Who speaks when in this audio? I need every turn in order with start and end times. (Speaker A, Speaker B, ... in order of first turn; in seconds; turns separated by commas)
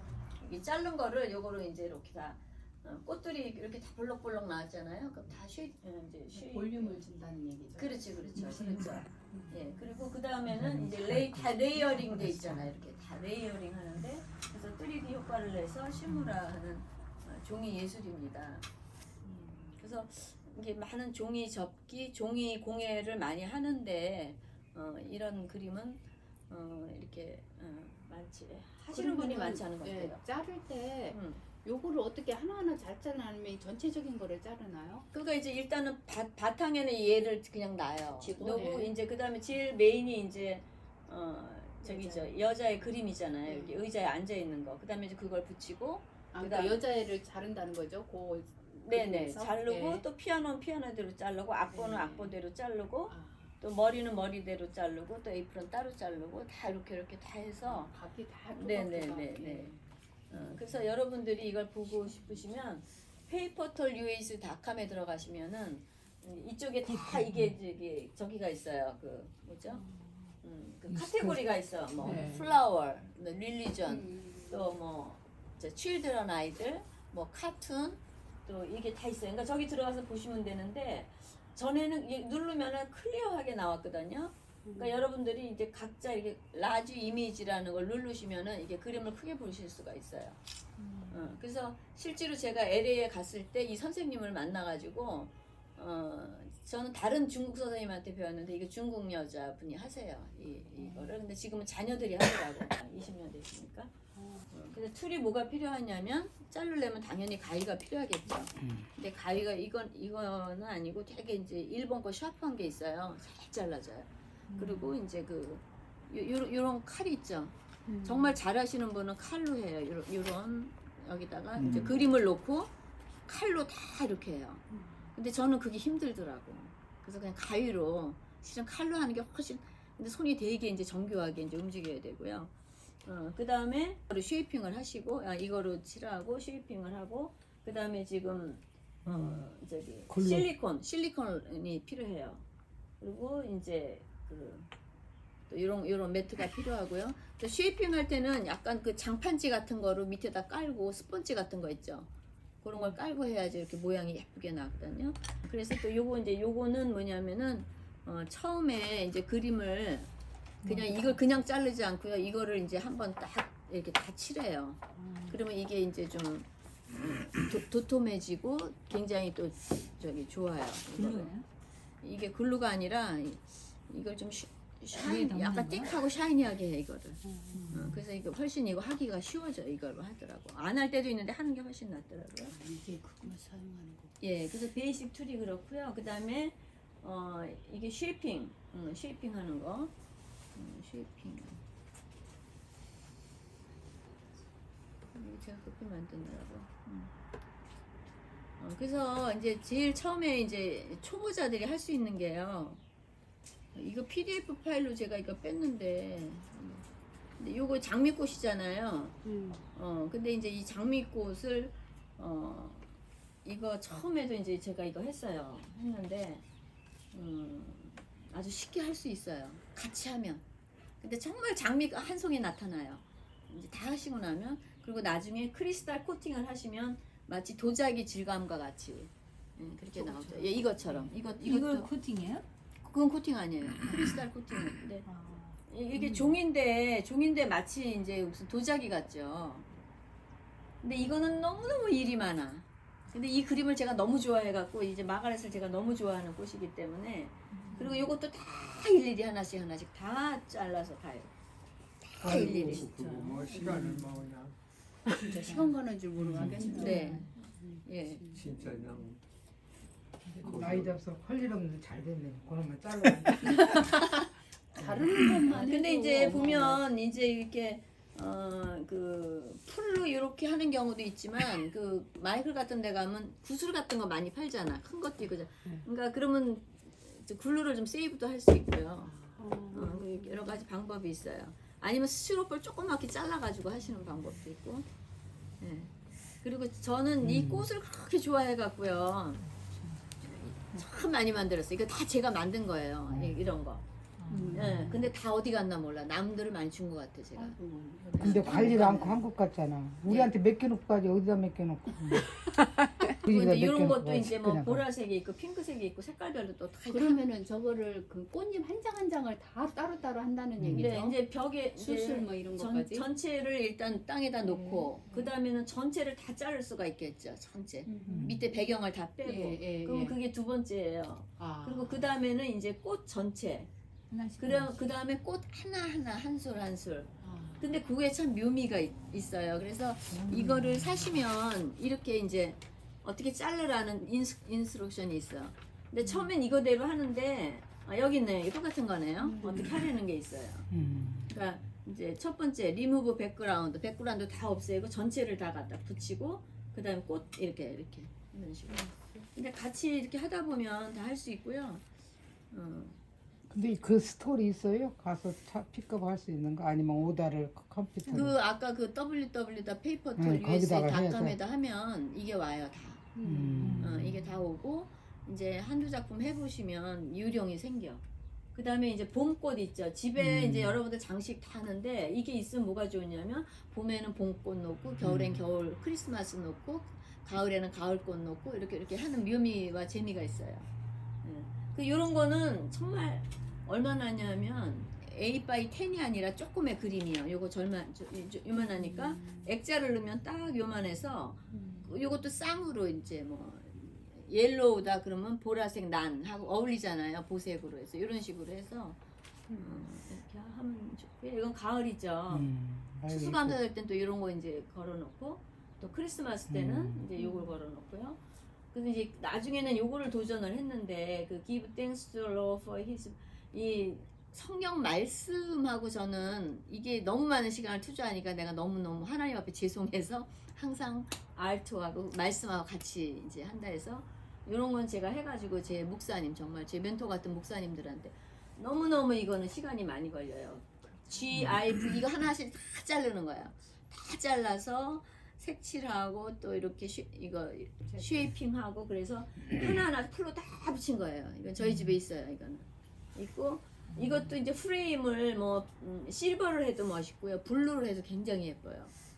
Speaker A: 0.4-7.2, Speaker B: 6.3-8.0, Speaker A: 7.8-18.7, Speaker C: 8.3-9.1, Speaker B: 9.3-9.6, Speaker D: 10.5-11.6, Speaker D: 12.3-12.6, Speaker B: 19.2-19.8, Speaker A: 19.8-30.2, Speaker B: 28.9-35.1, Speaker A: 31.1-31.4, Speaker A: 35.1-46.8, Speaker B: 38.2-38.9, Speaker B: 41.8-42.3, Speaker B: 43.5-43.8, Speaker B: 46.3-50.1, Speaker A: 48.6-57.9, Speaker B: 51.7-52.3, Speaker B: 53.1-53.5, Speaker B: 57.6-59.8, Speaker A: 58.6-59.8, Speaker A: 60.3-69.8, Speaker B: 60.3-60.8, Speaker B: 69.7-70.3, Speaker A: 70.4-90.4, Speaker D: 70.9-72.3, Speaker B: 73.9-74.8, Speaker B: 84.7-85.0, Speaker B: 90.8-91.2, Speaker A: 91.1-103.9, Speaker B: 100.8-101.1, Speaker B: 104.2-104.5, Speaker A: 104.5-122.7, Speaker B: 114.5-114.9, Speaker B: 117.9-118.4, Speaker D: 121.6-122.0, Speaker A: 123.3-124.6, Speaker B: 124.7-125.1, Speaker A: 125.2-132.5, Speaker A: 133.0-142.4, Speaker D: 139.1-139.5, Speaker D: 140.1-140.5, Speaker A: 143.0-144.7, Speaker A: 145.5-152.1, Speaker A: 152.6-160.1, Speaker A: 160.6-171.3, Speaker C: 160.7-160.9, Speaker C: 170.9-171.5, Speaker A: 172.0-182.6, Speaker C: 174.9-175.9, Speaker B: 177.2-177.9, Speaker C: 177.5-178.0, Speaker B: 182.5-184.1, Speaker A: 184.2-189.9, Speaker A: 190.6-191.6, Speaker A: 195.1-197.1, Speaker A: 198.6-202.8, Speaker A: 203.7-206.9, Speaker A: 207.4-209.2, Speaker B: 209.2-209.7, Speaker A: 209.7-212.9, Speaker A: 213.4-216.4, Speaker A: 217.1-220.4, Speaker A: 221.0-231.9, Speaker C: 230.0-230.3, Speaker C: 230.9-232.4, Speaker A: 232.8-235.1, Speaker C: 235.1-235.6, Speaker A: 235.7-239.7, Speaker B: 236.0-236.4, Speaker A: 240.8-251.3, Speaker C: 247.5-247.9, Speaker B: 247.7-248.1, Speaker A: 252.0-252.9, Speaker D: 252.2-252.8, Speaker E: 252.2-254.6, Speaker B: 252.5-254.0, Speaker B: 255.2-258.4, Speaker C: 255.4-255.8, Speaker D: 256.2-256.8, Speaker C: 256.3-257.3, Speaker A: 256.7-258.7, Speaker E: 258.3-259.2, Speaker E: 260.4-261.0, Speaker D: 260.4-264.0, Speaker B: 263.5-264.2, Speaker B: 264.7-266.8, Speaker D: 264.8-265.4, Speaker A: 265.5-284.9, Speaker B: 279.0-280.2, Speaker A: 285.6-289.5, Speaker D: 287.2-287.7, Speaker C: 289.5-290.1, Speaker A: 290.2-293.8, Speaker D: 293.1-293.4, Speaker C: 294.2-294.7, Speaker B: 294.3-295.1, Speaker A: 294.5-297.6, Speaker B: 297.4-299.2, Speaker A: 298.1-299.2, Speaker D: 298.2-304.8, Speaker A: 300.1-300.3, Speaker A: 303.2-307.2, Speaker B: 306.9-311.2, Speaker D: 310.6-310.9, Speaker A: 310.7-323.7, Speaker B: 311.8-313.1, Speaker B: 314.4-315.3, Speaker B: 317.9-318.3, Speaker D: 318.1-318.4, Speaker B: 319.2-320.2, Speaker B: 321.4-322.1, Speaker C: 324.1-324.9, Speaker A: 324.4-340.7, Speaker B: 327.2-327.7, Speaker D: 330.1-331.2, Speaker B: 336.0-336.3, Speaker B: 339.3-339.7, Speaker D: 340.7-341.4, Speaker A: 341.3-351.8, Speaker A: 352.5-353.0, Speaker D: 353.5-358.4, Speaker A: 358.1-363.1, Speaker D: 360.2-361.4, Speaker B: 363.2-363.8, Speaker D: 363.2-364.2, Speaker C: 363.6-363.9, Speaker A: 363.8-368.0, Speaker A: 368.6-380.7, Speaker D: 370.2-370.8, Speaker D: 375.0-375.4, Speaker A: 381.2-399.0, Speaker B: 388.6-389.5, Speaker B: 391.5-391.9, Speaker B: 399.5-399.8, Speaker A: 399.6-402.5, Speaker D: 402.3-403.6, Speaker A: 403.1-408.2, Speaker D: 406.5-407.1, Speaker B: 407.2-407.5, Speaker A: 408.7-448.9